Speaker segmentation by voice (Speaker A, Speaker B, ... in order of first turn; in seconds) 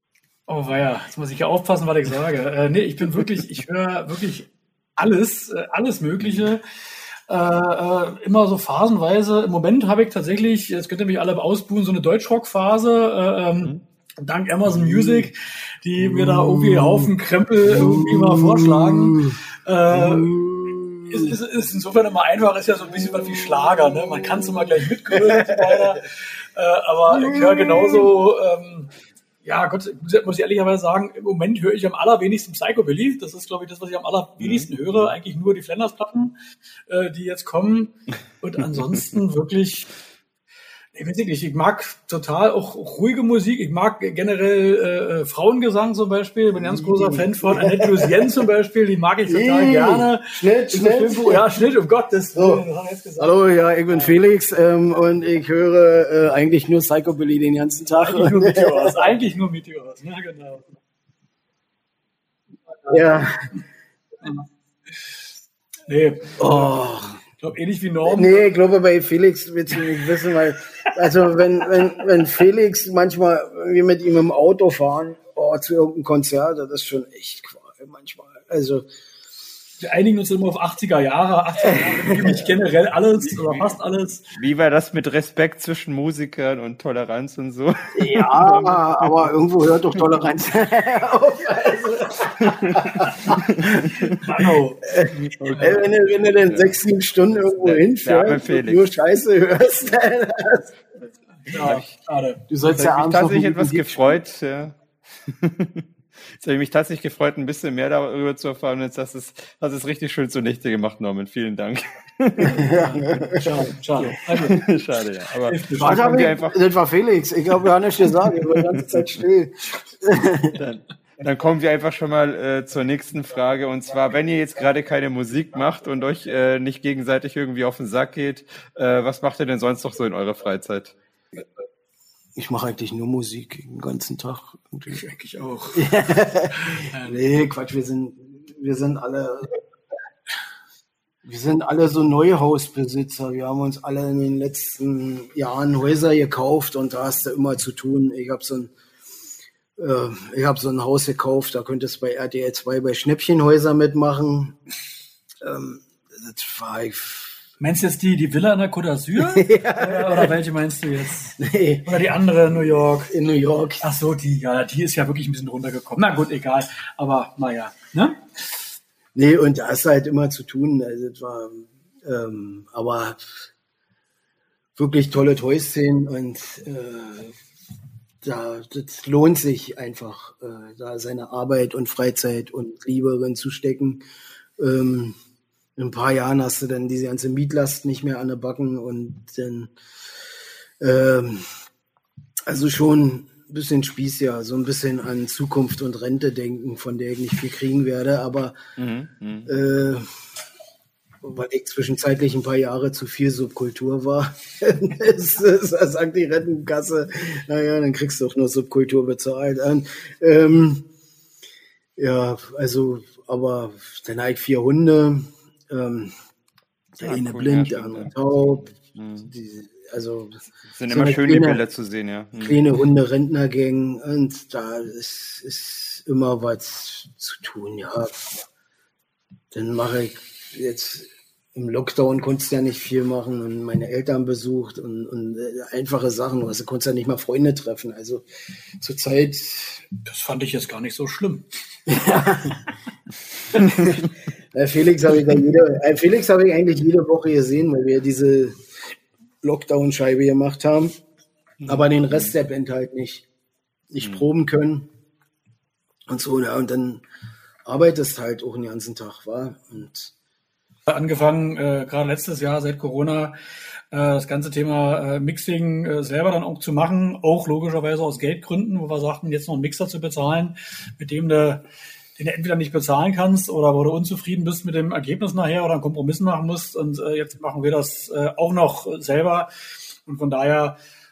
Speaker A: 0.5-6.6, 7.3-20.3, 21.1-36.3, 36.9-39.9, 40.9-53.3, 53.9-54.1, 58.0-60.6, 65.9-66.7, 67.4-68.5, 79.8-84.2, 94.2-94.8, 101.5-102.4, 112.5-114.6, 115.5-116.3, 134.9-135.9, 136.6-137.2, 157.6-163.1, 163.8-168.2, 240.0-241.4, 260.9-263.3, 263.9-271.6, 272.2-279.5, 280.1-280.8
Speaker B: 14.7-15.3, 16.0-17.1, 17.6-21.4, 22.9-24.5, 25.1-26.0, 27.1-28.1, 46.5-48.4, 49.3-51.6, 52.3-52.6, 53.2-58.9, 62.9-63.5, 66.4-67.2, 68.1-78.8, 81.6-82.5, 87.9-94.1, 94.9-100.7, 102.5-104.2, 112.4-114.5, 115.8-120.6, 132.3-135.0, 135.7-139.6, 141.2-148.7, 149.8-154.6, 155.4-157.4, 159.2-160.3, 161.4-161.9, 162.5-163.8, 169.1-173.2, 174.8-177.3, 178.2-184.0, 184.6-185.2, 185.8-189.7, 190.8-191.5, 192.5-198.6, 199.5-200.1, 201.2-210.8, 212.0-216.1, 217.0-218.7, 219.2-221.6, 222.4-228.4, 229.5-238.2, 238.8-239.9, 241.9-242.6, 243.5-248.6, 249.4-251.0, 251.7-253.2, 253.9-254.9, 256.1-257.0, 257.6-260.1
Speaker C: 34.4-35.1, 84.3-89.3, 92.4-94.2, 95.1-96.7, 97.6-98.9, 101.5-102.0, 102.7-113.1, 114.4-116.6, 118.5-119.1, 120.6-130.9, 198.8-199.5, 217.0-219.3, 220.6-222.6, 251.6-252.3, 254.0-254.2